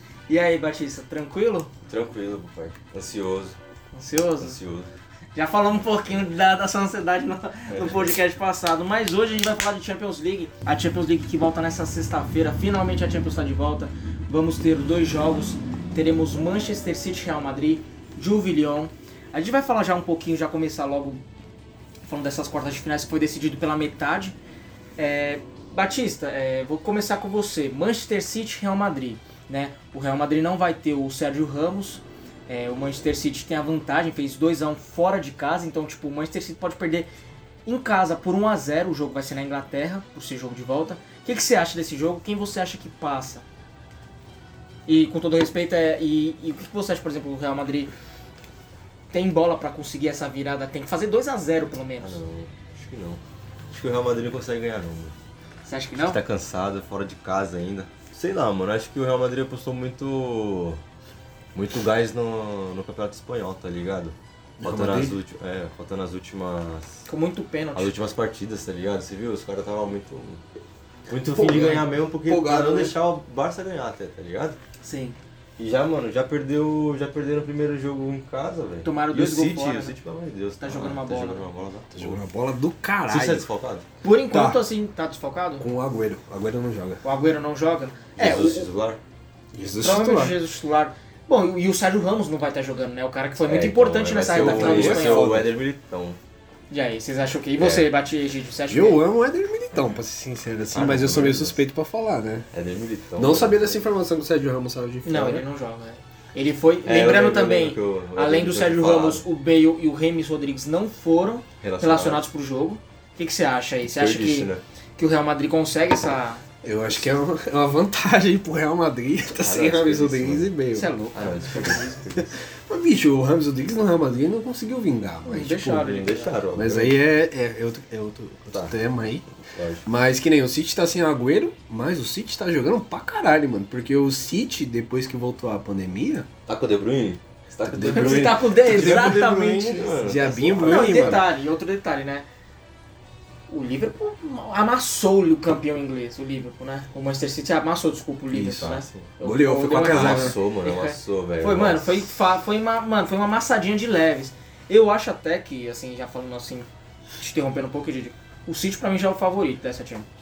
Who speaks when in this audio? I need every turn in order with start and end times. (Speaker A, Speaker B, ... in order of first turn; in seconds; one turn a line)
Speaker A: 0.3-1.7
Speaker B: 1.9-3.6
Speaker A: 3.9-4.6
Speaker B: 4.4-4.9
Speaker A: 5.3-21.2
Speaker B: 7.7-8.1
Speaker A: 22.1-24.4
Speaker A: 25.0-37.1
Speaker A: 37.7-43.5
Speaker A: 44.9-47.9
Speaker A: 49.1-52.2
Speaker B: 52.0-53.2
Speaker B: 53.7-55.1
Speaker A: 55.6-56.2
Speaker B: 56.0-60.8
Speaker B: 61.5-67.0
Speaker C: 64.6-65.2
Speaker A: 67.1-67.9
Speaker B: 67.8-70.4
Speaker B: 71.1-74.6
Speaker C: 71.2-73.0
Speaker A: 74.8-75.2
Speaker B: 75.6-82.2
Speaker A: 78.8-79.9
Speaker A: 80.6-81.5
Speaker C: 81.9-83.5
Speaker B: 83.1-83.8
Speaker A: 84.0-85.7
Speaker C: 84.3-84.6
Speaker C: 85.6-87.0
Speaker A: 87.0-88.7
Speaker B: 88.2-89.0
Speaker C: 89.5-90.4
Speaker A: 89.8-95.4
Speaker B: 93.4-96.2
Speaker C: 94.3-95.5
Speaker A: 96.7-99.0
Speaker B: 97.6-97.9
Speaker C: 98.7-102.5
Speaker B: 100.7-101.6
Speaker B: 102.5-103.8
Speaker C: 103.2-105.4
Speaker A: 105.0-116.5
Speaker B: 106.8-109.2
Speaker B: 111.6-112.3
Speaker B: 113.8-114.6
Speaker C: 116.6-121.0
Speaker B: 119.3-120.5
Speaker A: 120.7-121.9
Speaker B: 121.1-122.3
Speaker C: 121.5-125.9
Speaker A: 125.3-126.4
Speaker B: 125.7-127.0
Speaker C: 126.6-129.3
Speaker B: 129.6-129.8
Speaker C: 129.8-136.3
Speaker B: 136.5-141.2
Speaker C: 137.7-139.2
Speaker A: 137.8-142.3
Speaker C: 140.0-141.2
Speaker A: 143.5-156.7
Speaker C: 148.3-148.7
Speaker B: 148.6-149.1
Speaker C: 149.2-150.4
Speaker B: 149.8-151.9
Speaker A: 157.2-160.1